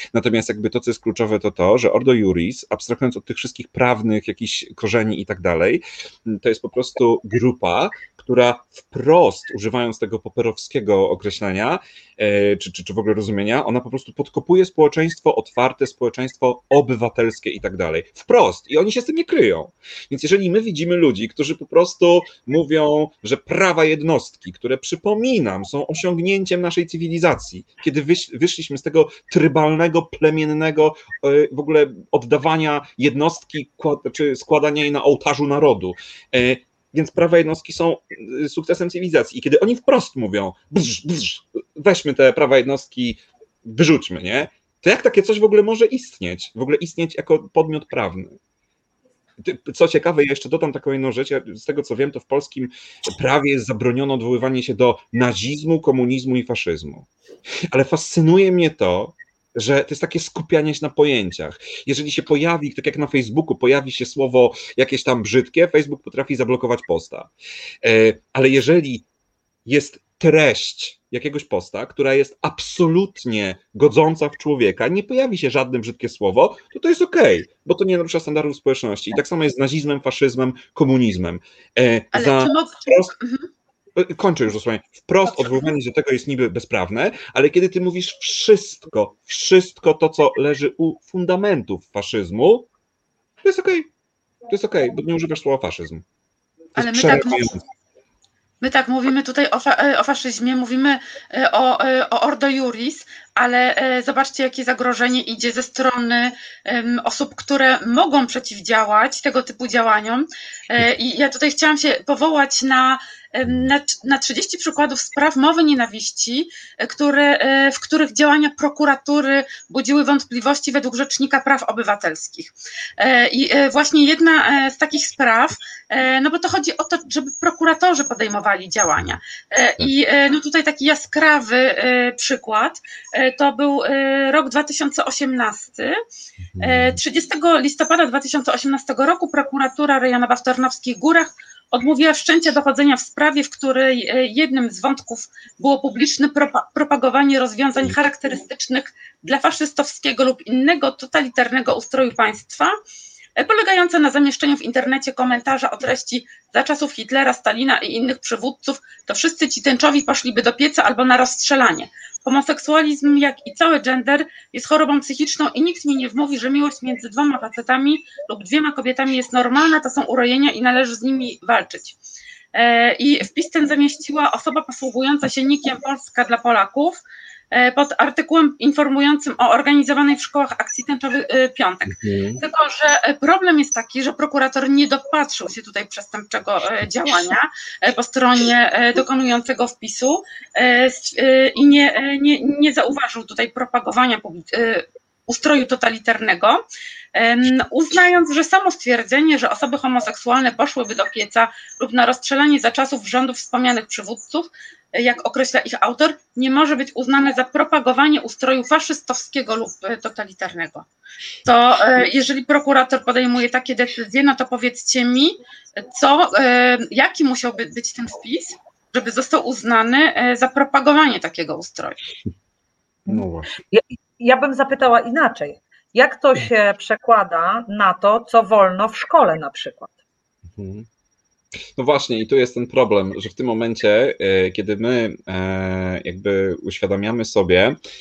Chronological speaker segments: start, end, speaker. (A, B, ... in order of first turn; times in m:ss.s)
0:00.1-0:48.4 A
0:49.4-0:57.1 A
0:57.7-1:07.3 A
1:07.8-1:09.0 A
1:09.6-1:23.1 A
1:22.1-1:23.5 B
1:24.0-1:32.7 A
1:25.3-1:25.6 B
1:33.4-1:33.9 A
1:34.5-1:36.0 A
1:36.8-1:37.6 A
1:36.8-1:37.5 B
1:38.6-2:16.0 B
2:16.5-2:17.0 A
2:16.6-2:32.7 B
2:33.4-2:52.0 B
2:52.5-2:57.0 B
2:57.5-3:16.6 B
3:01.9-3:02.4 A
3:17.1-3:30.9 B
3:31.4-3:42.0 B
3:43.0-3:49.9 C
3:43.1-3:43.5 A
3:50.5-3:50.9 A
3:51.8-3:57.8 A